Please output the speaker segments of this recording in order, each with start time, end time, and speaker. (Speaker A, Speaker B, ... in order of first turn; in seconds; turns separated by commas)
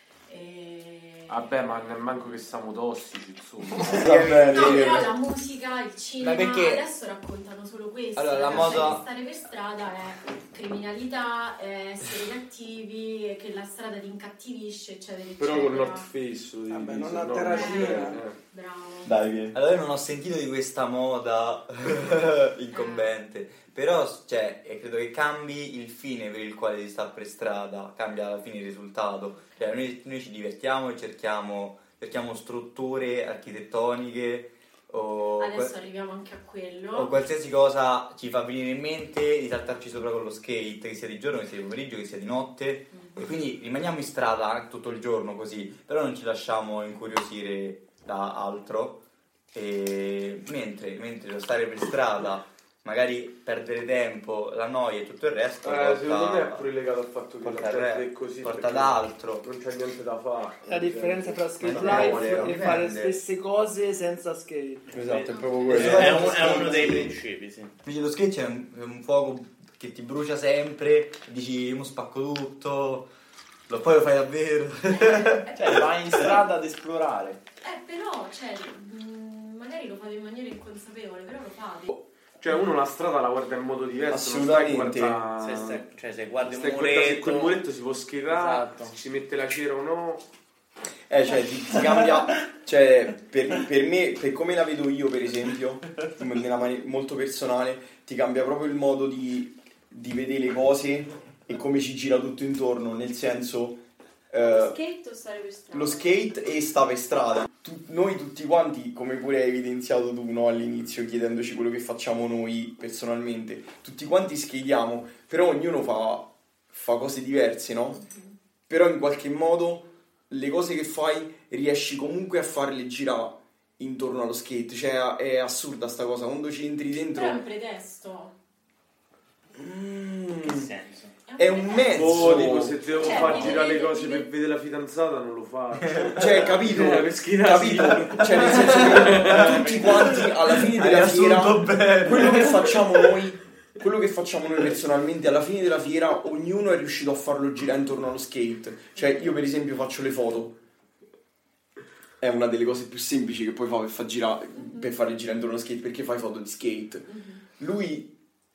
Speaker A: 0.3-1.9, Speaker B: 1.3-4.5, Speaker C: 3.9-5.1, Speaker D: 4.0-4.8, Speaker A: 4.5-16.1, Speaker D: 6.2-6.8, Speaker C: 8.2-9.0, Speaker D: 8.2-9.0, Speaker B: 15.4-18.4, Speaker E: 16.7-18.2, Speaker A: 17.4-19.1, Speaker C: 19.1-19.6, Speaker D: 19.5-35.7, Speaker A: 22.7-23.1, Speaker A: 29.3-29.6, Speaker A: 35.4-37.1, Speaker D: 36.9-56.7, Speaker A: 42.9-43.3, Speaker B: 55.6-62.8, Speaker D: 57.4-59.5, Speaker E: 60.7-65.0, Speaker D: 61.6-63.2, Speaker F: 64.9-67.8, Speaker C: 64.9-66.9, Speaker A: 65.3-65.8, Speaker G: 65.7-67.1, Speaker D: 65.8-66.2, Speaker D: 67.8-73.1, Speaker D: 73.7-76.4, Speaker A: 74.9-75.9, Speaker G: 75.6-77.4, Speaker A: 77.6-81.9, Speaker B: 82.4-85.8, Speaker C: 84.1-85.2, Speaker F: 85.4-87.6, Speaker B: 86.4-90.2, Speaker F: 88.3-88.9, Speaker C: 91.1-104.8, Speaker A: 104.3-106.2, Speaker C: 105.7-118.0, Speaker A: 117.9-118.3, Speaker C: 118.7-127.4, Speaker A: 127.1-128.3, Speaker C: 129.6-130.7, Speaker F: 130.4-131.2, Speaker A: 131.3-132.3, Speaker C: 131.4-133.5, Speaker B: 131.9-139.8, Speaker A: 132.9-134.3, Speaker D: 135.8-136.6, Speaker C: 136.1-150.6, Speaker D: 138.1-143.1, Speaker F: 139.3-140.2, Speaker A: 149.0-149.3, Speaker C: 152.2-158.1, Speaker A: 154.6-154.9, Speaker A: 157.1-157.4